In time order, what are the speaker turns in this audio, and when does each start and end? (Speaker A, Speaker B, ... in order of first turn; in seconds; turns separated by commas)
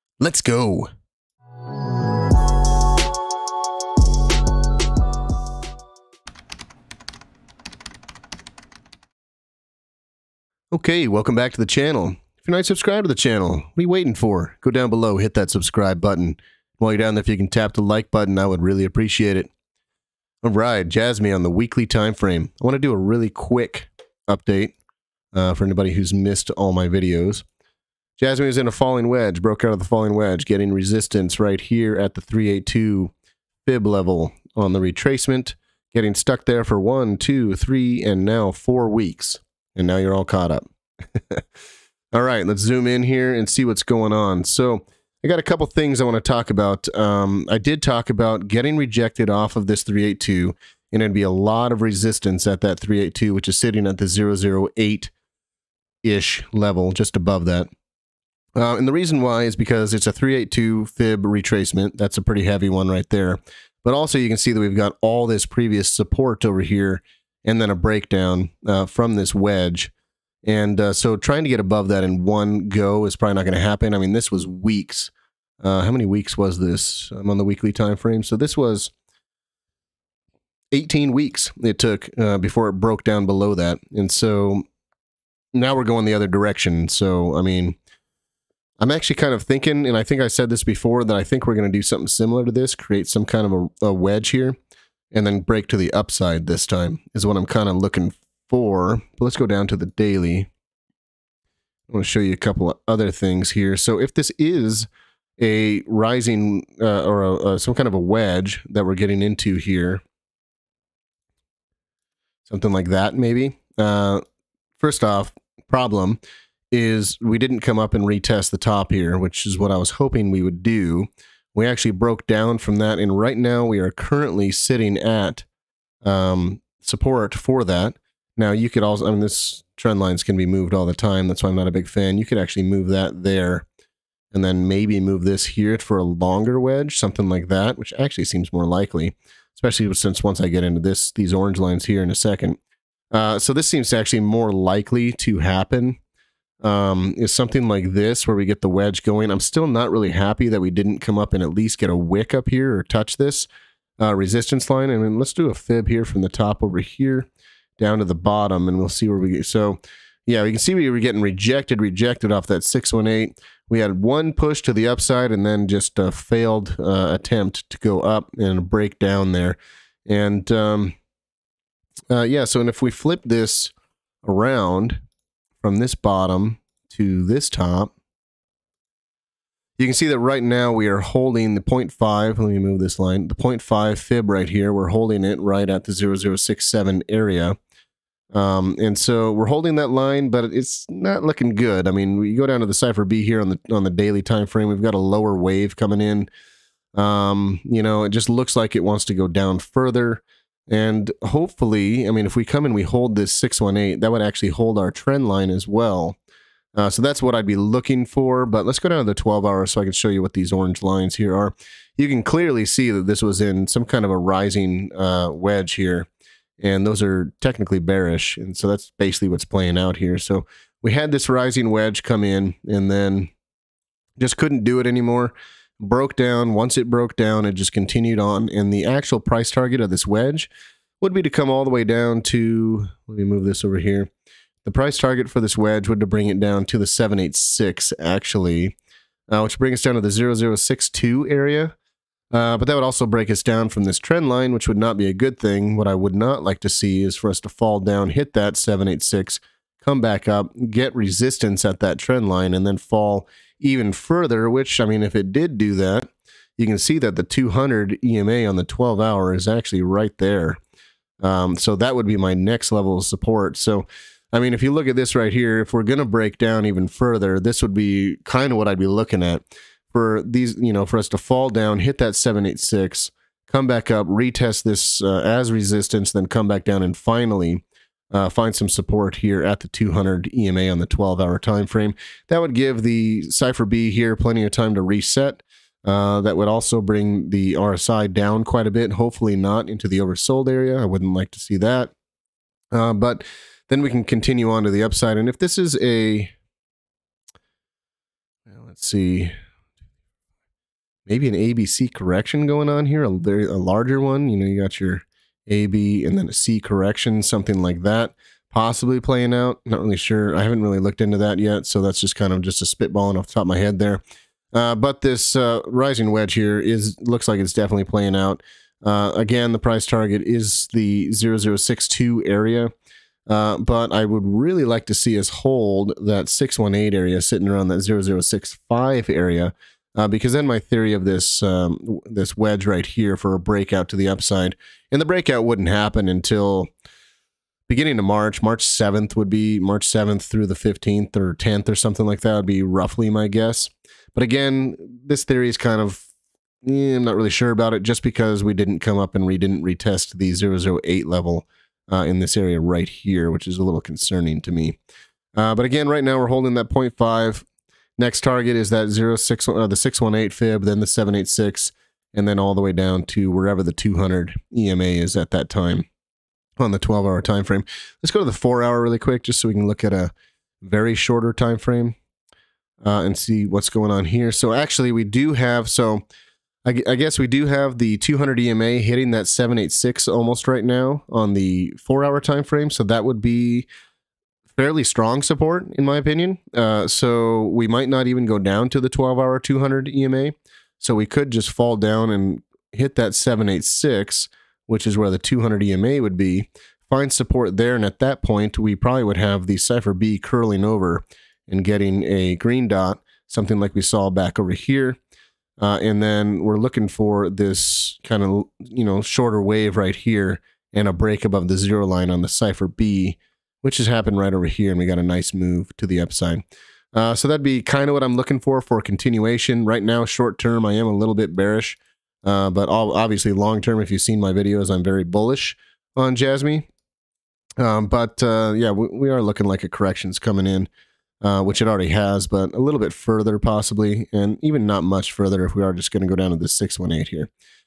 Speaker A: 0.2-0.9, Speaker A: 10.7-19.5, Speaker A: 20.4-24.8, Speaker A: 25.3-27.4, Speaker A: 28.2-33.1, Speaker A: 33.6-41.4, Speaker A: 42.1-55.1, Speaker A: 56.0-57.7, Speaker A: 58.6-69.9, Speaker A: 70.4-78.9, Speaker A: 80.7-84.7, Speaker A: 85.5-87.8, Speaker A: 88.8-94.6, Speaker A: 95.1-100.5, Speaker A: 101.9-110.0, Speaker A: 112.4-114.2, Speaker A: 114.8-116.2, Speaker A: 116.7-125.5, Speaker A: 126.0-133.7, Speaker A: 134.3-142.6, Speaker A: 143.1-146.0, Speaker A: 146.6-153.5, Speaker A: 154.0-170.9, Speaker A: 172.1-175.0, Speaker A: 175.6-177.9, Speaker A: 179.8-187.6, Speaker A: 188.3-196.3, Speaker A: 196.9-206.2, Speaker A: 206.8-216.1, Speaker A: 216.6-223.3, Speaker A: 224.2-234.1, Speaker A: 234.6-238.8, Speaker A: 239.3-241.8, Speaker A: 242.3-260.6, Speaker A: 261.2-291.9, Speaker A: 292.7-296.3, Speaker A: 298.5-299.3, Speaker A: 301.1-314.0, Speaker A: 314.5-322.7, Speaker A: 323.3-336.7, Speaker A: 337.7-346.1, Speaker A: 346.6-354.8, Speaker A: 355.4-357.5, Speaker A: 358.0-365.9, Speaker A: 366.6-372.0, Speaker A: 372.8-376.0, Speaker A: 376.6-383.7, Speaker A: 384.5-405.0, Speaker A: 405.6-416.4, Speaker A: 416.9-426.7, Speaker A: 427.6-430.7, Speaker A: 431.2-437.3